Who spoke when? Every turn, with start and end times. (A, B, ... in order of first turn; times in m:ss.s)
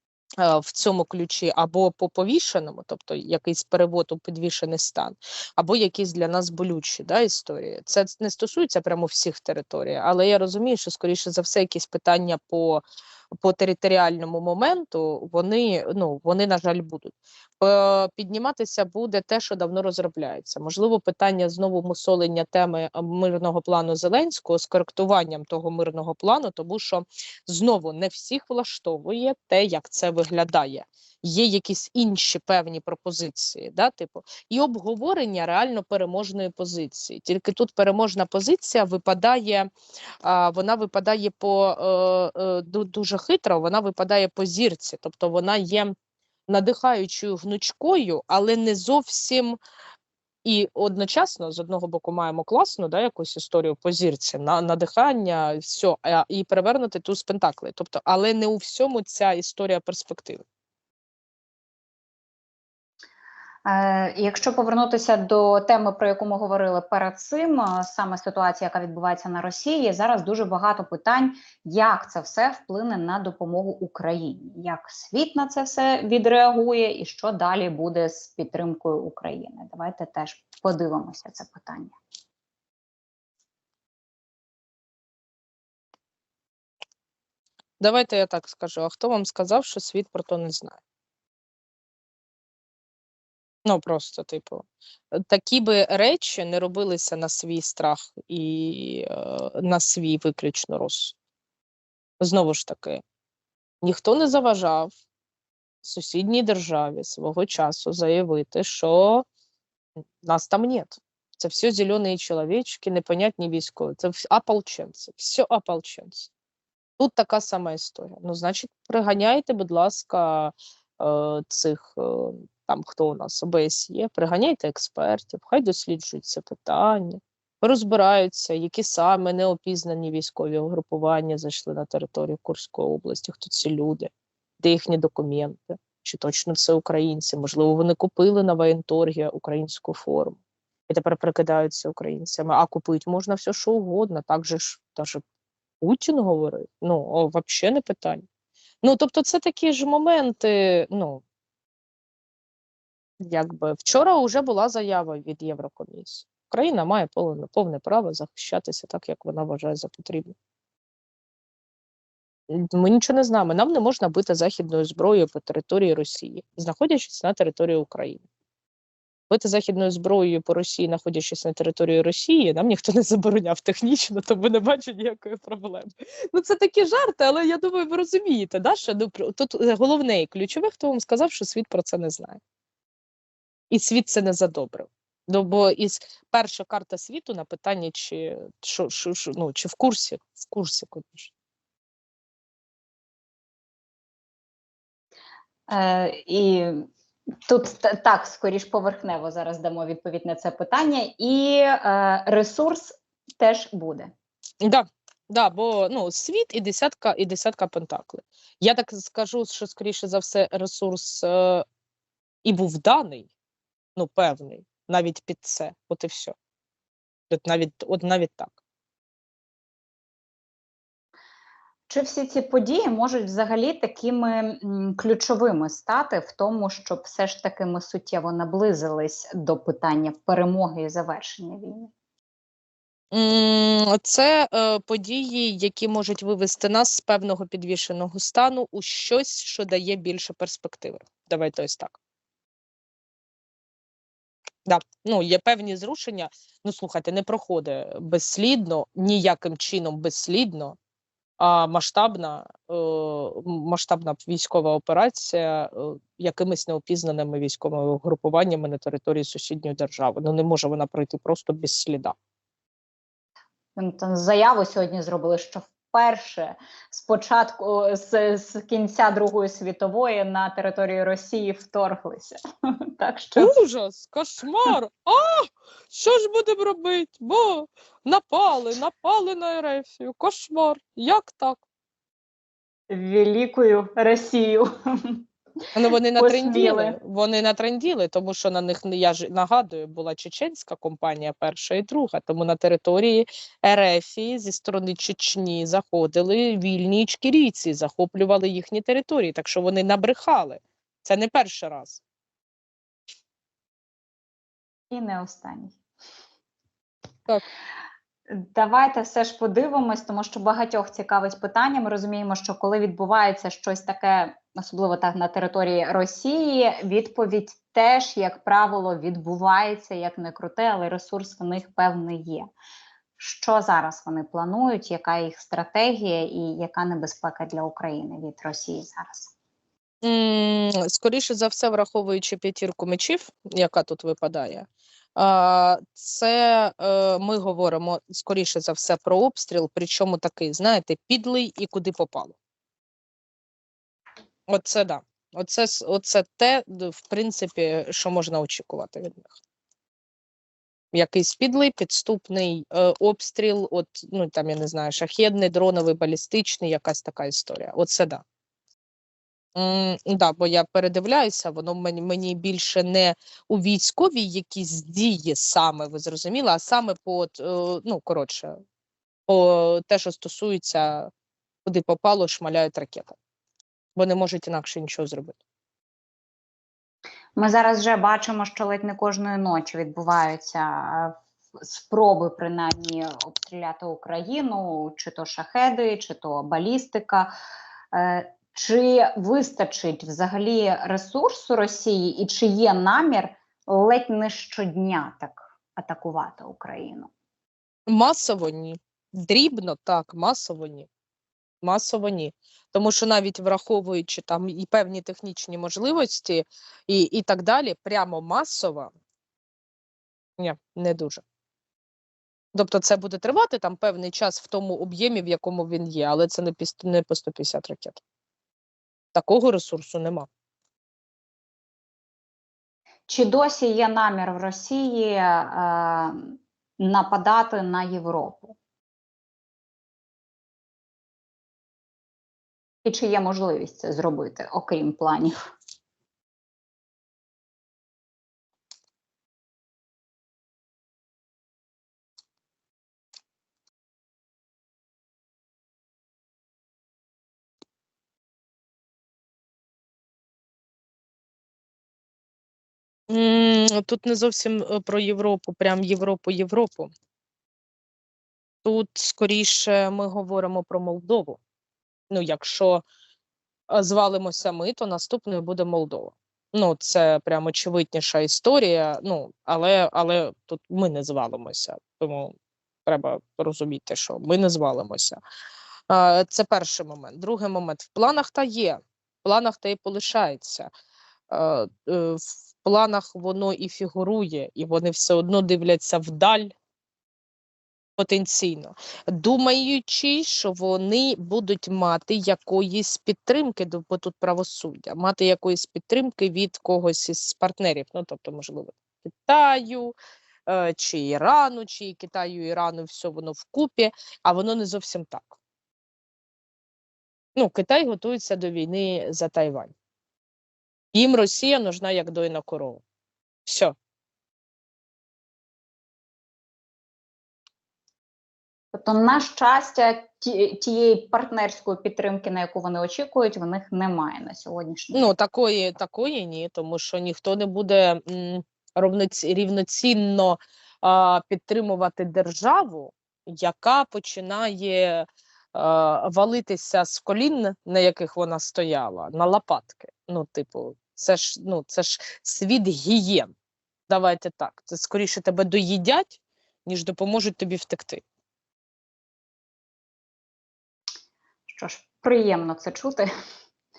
0:00.4-0:12.8 A
0:13.3-0:39.7 A
0:40.2-0:45.9 A
0:46.5-0:49.6 A
0:50.4-1:00.4 A
1:03.6-1:22.0 B
1:27.8-1:30.8 A
1:33.6-1:41.1 A
1:42.2-1:43.0 A
1:43.8-1:44.9 A
1:45.8-1:49.2 A
1:50.2-1:56.3 A
1:57.0-2:25.2 A
2:25.8-2:28.2 A
2:28.8-2:31.2 A
2:33.2-2:40.3 A
2:42.5-2:48.2 A
2:49.3-3:02.4 A
3:03.7-3:11.3 A
3:15.7-3:16.9 B
3:17.4-3:24.1 B
3:24.6-3:31.6 A
3:32.4-3:33.3 A
3:34.0-3:36.3 A
3:37.3-3:38.5 A
3:41.9-3:51.9 B
3:53.1-4:02.0 A
4:04.6-4:10.8 A
4:11.4-4:22.1 A
4:23.8-4:32.3 B
4:33.0-4:33.5 B
4:33.4-4:41.6 A
4:42.9-4:45.2 B
4:45.7-5:02.0 A
4:46.2-4:47.0 B
5:04.9-5:05.8 B
5:08.3-5:22.5 B
5:23.2-5:29.3 B
5:30.0-5:42.4 A
5:44.5-5:49.4 A
5:50.9-5:58.2 A
5:59.5-6:08.6 A
6:09.3-6:11.1 A
6:11.6-6:13.2 A
6:14.0-6:15.4 A
6:17.4-6:27.3 B
6:27.9-6:37.1 B
6:37.9-6:40.9 A
6:41.6-6:48.9 A
6:50.4-6:51.2 A
6:52.5-6:58.0 A
6:59.1-7:00.3 A
7:03.1-7:08.6 B
7:12.8-7:15.3 B
7:33.1-7:36.9 A
7:38.6-7:41.4 A
7:42.1-7:42.8 A
7:43.7-7:52.3 A
7:52.8-7:55.2 A
7:55.9-8:00.7 A
8:01.3-8:06.5 A
8:08.0-8:19.9 A
8:20.5-8:25.4 A
8:27.3-8:29.7 A
8:30.9-8:32.8 A
8:33.4-8:33.7 A
8:38.7-8:45.1 B
8:44.9-9:03.3 A
9:03.9-9:08.0 A
9:11.5-9:13.1 B